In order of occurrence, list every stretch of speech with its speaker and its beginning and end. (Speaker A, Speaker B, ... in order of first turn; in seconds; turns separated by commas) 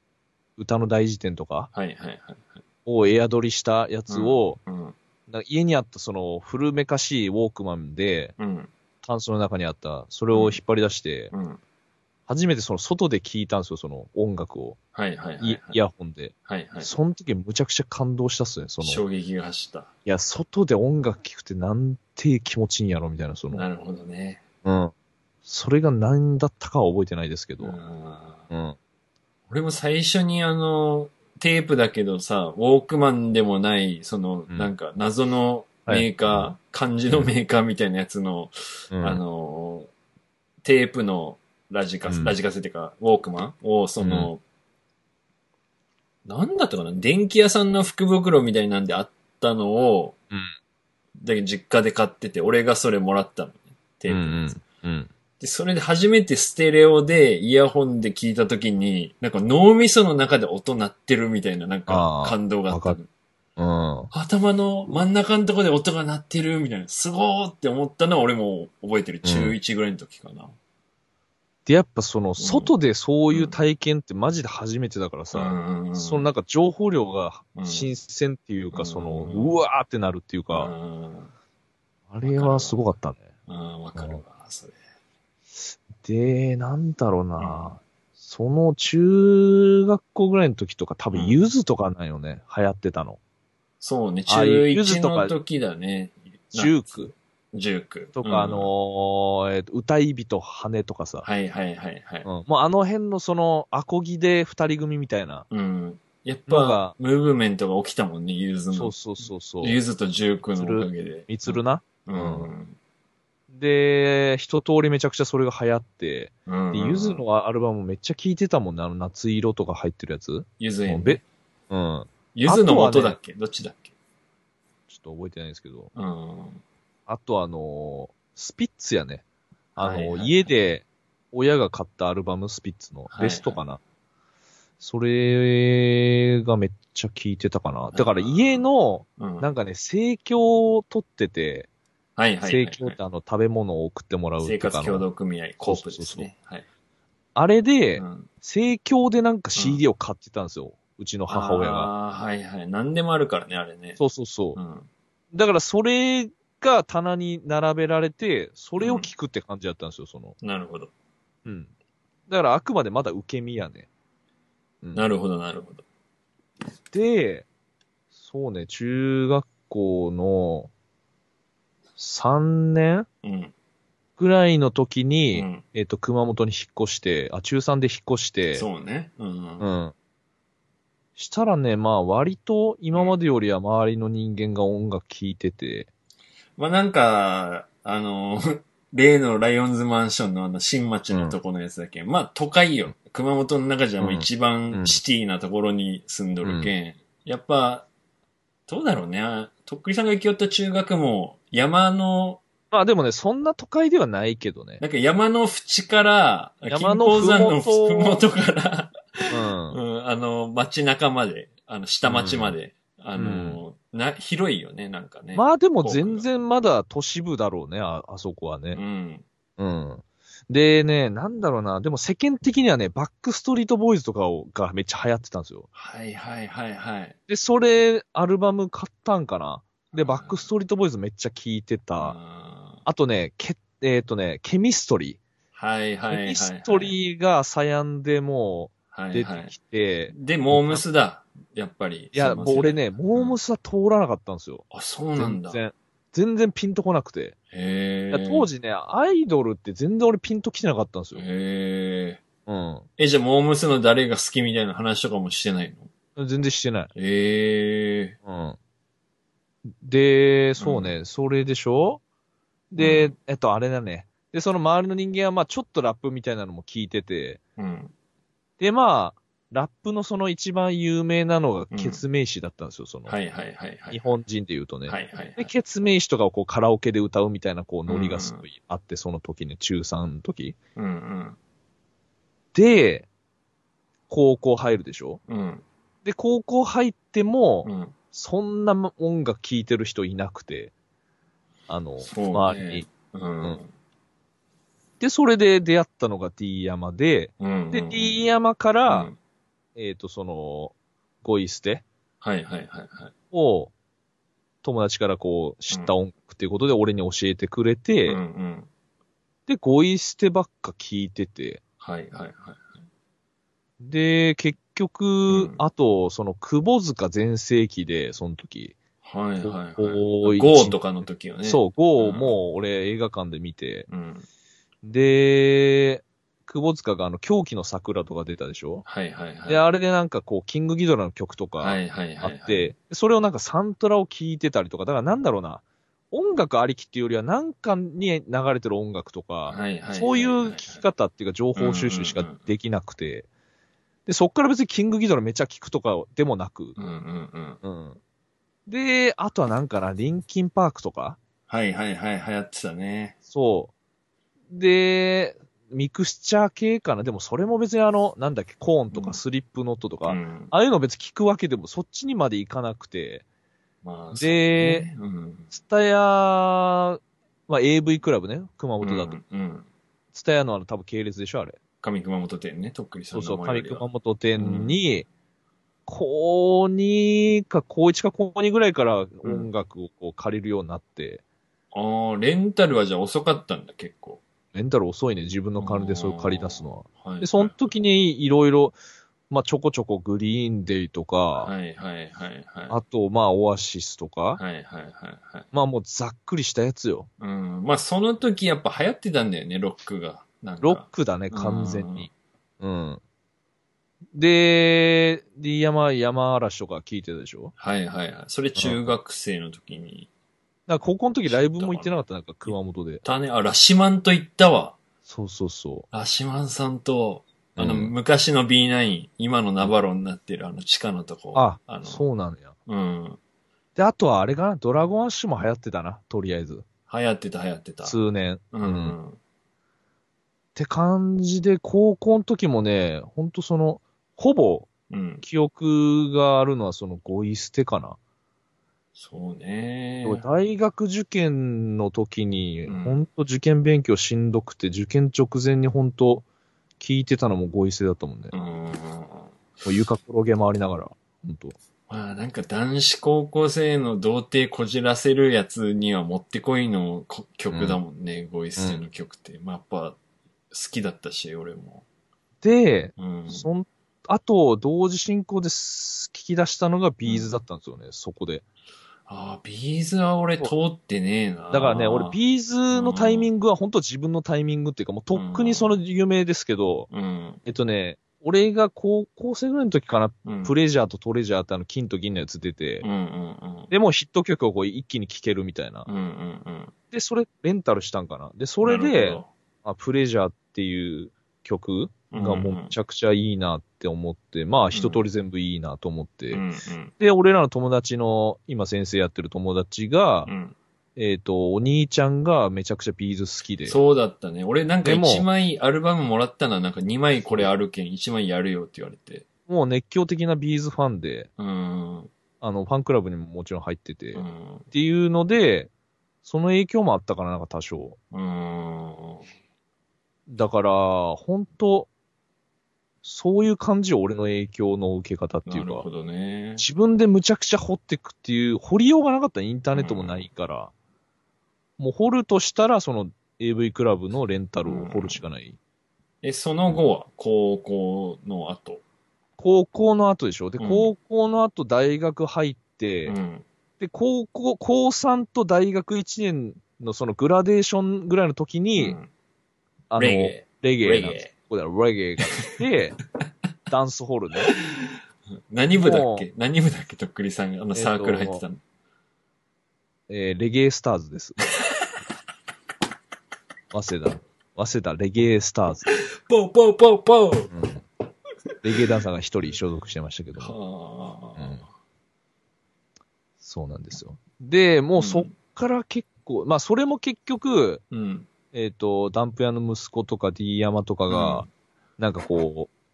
Speaker A: 0.6-1.7, Speaker B: 1.7-2.6, Speaker A: 2.9-4.6, Speaker B: 4.1-5.0, Speaker A: 5.3-8.3, Speaker B: 8.4-8.7, Speaker A: 9.0-11.3, Speaker B: 10.3-10.6, Speaker B: 11.3-11.6, Speaker A: 12.3-14.8, Speaker B: 14.9-15.8, Speaker A: 15.4-19.0, Speaker B: 16.4-16.9, Speaker B: 18.8-19.9, Speaker A: 20.1-23.7, Speaker B: 23.5-24.4, Speaker A: 24.6-24.9, Speaker A: 25.4-27.8, Speaker B: 27.6-28.5, Speaker A: 28.5-28.8, Speaker B: 29.5-39.9, Speaker A: 35.9-36.5, Speaker A: 38.9-39.2, Speaker B: 40.6-44.4, Speaker A: 42.1-42.4, Speaker A: 44.0-44.3, Speaker B: 46.2-50.2, Speaker B: 51.2-54.5, Speaker A: 54.1-55.1, Speaker B: 55.4-63.1, Speaker A: 61.9-63.0, Speaker A: 63.6-64.1, Speaker B: 64.1-70.5, Speaker A: 69.2-69.5, Speaker A: 71.7-80.7, Speaker B: 72.4-72.7, Speaker B: 73.3-73.5, Speaker B: 75.3-76.3, Speaker B: 77.5-77.9, Speaker B: 78.7-79.6, Speaker B: 80.5-81.3, Speaker A: 82.1-83.3, Speaker B: 82.2-82.8, Speaker B: 83.5-84.8, Speaker A: 84.0-84.2, Speaker A: 86.0-93.2, Speaker B: 87.4-87.8, Speaker B: 91.1-91.4, Speaker B: 93.8-96.8, Speaker A: 94.3-95.3, Speaker A: 96.5-97.1, Speaker B: 97.5-98.7, Speaker A: 98.2-101.2, Speaker B: 101.2-102.2, Speaker A: 102.2-105.5, Speaker B: 105.5-109.0, Speaker A: 106.5-107.0, Speaker A: 108.7-109.8, Speaker B: 109.6-112.8, Speaker A: 110.5-112.5, Speaker A: 113.5-123.2, Speaker B: 116.5-117.2, Speaker B: 120.6-121.2, Speaker B: 122.3-123.9, Speaker A: 124.9-125.9, Speaker B: 125.9-126.6, Speaker A: 127.1-129.2, Speaker A: 129.8-133.8, Speaker B: 129.8-130.5, Speaker B: 133.1-133.6, Speaker A: 134.8-141.7, Speaker B: 137.9-138.6, Speaker B: 139.2-139.5, Speaker B: 142.2-143.0, Speaker A: 142.4-145.1, Speaker B: 144.4-146.6, Speaker A: 145.7-146.3, Speaker A: 147.3-151.9, Speaker B: 148.0-148.3, Speaker B: 149.6-149.8, Speaker B: 151.3-154.0, Speaker A: 154.0-154.6, Speaker B: 154.5-154.9, Speaker A: 155.3-160.3, Speaker B: 158.8-159.1, Speaker B: 160.4-160.9, Speaker A: 161.4-161.7, Speaker A: 162.3-163.9, Speaker A: 164.8-165.1, Speaker B: 164.9-165.8, Speaker A: 166.9-167.4, Speaker A: 168.2-170.7, Speaker A: 172.0-173.1, Speaker B: 173.2-173.5, Speaker A: 174.2-178.7, Speaker B: 175.3-175.6, Speaker B: 178.5-179.7, Speaker A: 179.6-179.9, Speaker A: 181.2-185.9, Speaker B: 186.6-197.9, Speaker A: 191.1-191.4, Speaker A: 194.0-195.0, Speaker A: 196.4-196.7, Speaker B: 198.7-202.4, Speaker A: 202.7-204.8, Speaker B: 204.8-216.3, Speaker A: 206.7-208.2, Speaker A: 209.3-209.8, Speaker A: 212.0-212.6, Speaker A: 213.1-213.6, Speaker A: 215.3-218.8, Speaker B: 218.7-219.2, Speaker A: 219.6-225.7, Speaker B: 225.7-227.2, Speaker A: 227.3-232.2, Speaker B: 229.9-230.5, Speaker B: 232.0-232.8, Speaker A: 232.8-235.2, Speaker B: 235.5-236.9, Speaker A: 236.1-240.8, Speaker B: 238.9-239.5, Speaker B: 240.1-243.4, Speaker A: 242.1-247.4, Speaker B: 244.7-245.6, Speaker B: 247.5-248.5, Speaker A: 248.1-251.2, Speaker B: 251.1-252.2, Speaker A: 252.4-252.9, Speaker B: 253.0-255.9, Speaker A: 256.1-256.9, Speaker B: 256.9-258.1, Speaker A: 258.2-258.6, Speaker A: 259.7-262.0, Speaker B: 260.6-260.9, Speaker A: 262.7-267.4, Speaker B: 262.8-263.1, Speaker B: 267.6-267.9, Speaker A: 268.6-273.1, Speaker B: 271.7-272.0, Speaker B: 273.1-274.1, Speaker A: 273.9-280.6, Speaker B: 274.9-275.5, Speaker B: 277.9-278.4, Speaker B: 280.8-281.4, Speaker A: 282.5-283.1, Speaker A: 284.1-285.2, Speaker B: 285.3-285.6, Speaker A: 286.0-290.7, Speaker B: 287.6-287.9, Speaker A: 291.7-292.9, Speaker B: 292.0-293.7, Speaker A: 295.0-299.1, Speaker B: 297.4-298.2, Speaker B: 298.9-299.1, Speaker A: 299.8-301.8, Speaker B: 302.2-303.1, Speaker A: 303.3-303.7, Speaker A: 304.6-308.2, Speaker B: 308.1-308.7, Speaker A: 309.5-311.6, Speaker B: 311.8-312.8, Speaker A: 313.8-318.8, Speaker B: 315.3-315.6, Speaker B: 319.0-322.4, Speaker A: 319.4-320.8, Speaker A: 321.4-323.9, Speaker B: 323.9-324.2, Speaker A: 324.8-328.8, Speaker B: 328.9-329.6, Speaker A: 329.4-343.3, Speaker B: 331.6-332.7, Speaker B: 339.5-340.9, Speaker B: 341.6-342.4, Speaker A: 344.1-346.8, Speaker B: 346.8-347.6, Speaker A: 347.6-348.0, Speaker A: 348.7-351.2, Speaker B: 351.5-353.1, Speaker A: 353.3-353.7, Speaker A: 354.5-363.2, Speaker B: 358.9-359.2, Speaker B: 360.1-360.5, Speaker B: 363.8-365.5, Speaker A: 364.1-364.9, Speaker A: 365.5-369.2, Speaker B: 368.8-369.7, Speaker A: 370.1-371.6, Speaker B: 371.8-373.8, Speaker A: 373.1-375.1, Speaker B: 374.4-374.8, Speaker A: 375.9-381.2, Speaker B: 379.2-379.5, Speaker B: 381.7-384.2, Speaker A: 384.5-388.8, Speaker B: 385.6-387.6, Speaker A: 389.3-391.5, Speaker B: 391.4-392.8, Speaker A: 392.7-394.4, Speaker B: 394.4-395.5, Speaker A: 395.5-397.1, Speaker B: 397.2-402.1, Speaker A: 400.6-403.0, Speaker A: 404.1-407.5, Speaker B: 407.6-410.1, Speaker A: 408.6-408.9, Speaker A: 410.7-413.0, Speaker B: 411.3-412.5, Speaker B: 413.0-414.8, Speaker A: 415.1-415.9, Speaker B: 415.9-422.0, Speaker A: 417.6-417.9, Speaker A: 421.3-422.5, Speaker B: 422.6-423.2, Speaker A: 423.8-426.6, Speaker B: 426.9-428.0, Speaker A: 427.8-429.0, Speaker B: 428.5-429.2, Speaker A: 430.5-434.7, Speaker B: 434.9-435.2, Speaker A: 435.2-438.0, Speaker B: 438.9-440.2, Speaker A: 440.0-446.2, Speaker B: 442.6-443.0, Speaker A: 446.8-448.4, Speaker B: 448.3-449.3, Speaker A: 449.6-451.6, Speaker B: 451.9-460.0, Speaker A: 457.5-457.8, Speaker A: 458.6-458.8, Speaker B: 460.5-461.8, Speaker A: 462.4-468.4, Speaker B: 463.0-463.5, Speaker B: 467.0-467.3, Speaker B: 469.1-472.2, Speaker A: 471.5-476.9, Speaker B: 472.7-473.3, Speaker B: 475.1-475.8, Speaker B: 476.9-477.4, Speaker A: 477.4-482.9, Speaker B: 480.2-480.5, Speaker B: 482.8-483.7, Speaker A: 483.7-485.9, Speaker B: 485.9-486.7, Speaker A: 486.9-496.4, Speaker B: 488.6-489.3, Speaker B: 492.1-492.7, Speaker B: 494.7-495.0, Speaker B: 496.3-496.9, Speaker A: 497.0-500.3, Speaker B: 500.2-500.6, Speaker A: 500.9-503.8, Speaker B: 503.6-509.2, Speaker A: 504.8-505.3, Speaker A: 509.5-511.3, Speaker B: 511.4-512.1, Speaker A: 512.4-515.7, Speaker B: 514.1-514.6, Speaker A: 516.2-518.0, Speaker B: 518.1-519.2, Speaker A: 520.3-521.9, Speaker A: 523.0-525.9, Speaker B: 525.5-526.6, Speaker A: 526.6-530.7, Speaker B: 529.7-530.3, Speaker A: 531.8-535.6, Speaker B: 534.6-535.2, Speaker B: 536.2-538.8, Speaker A: 539.4-543.2, Speaker B: 540.6-540.9, Speaker B: 543.0-543.4, Speaker A: 543.8-549.0, Speaker B: 548.8-549.1, Speaker A: 549.9-553.0, Speaker B: 550.0-551.3, Speaker A: 553.7-554.5, Speaker B: 554.5-554.9, Speaker B: 555.5-558.6, Speaker A: 555.7-556.2, Speaker A: 557.7-558.4, Speaker A: 560.1-561.5, Speaker A: 563.7-565.9, Speaker B: 566.2-567.5, Speaker A: 567.5-567.8, Speaker A: 568.6-570.6, Speaker B: 570.4-571.6, Speaker A: 571.4-571.6, Speaker A: 573.4-577.8, Speaker B: 575.0-575.3, Speaker B: 577.9-578.3, Speaker A: 578.5-581.5, Speaker B: 581.1-581.5, Speaker A: 582.0-582.7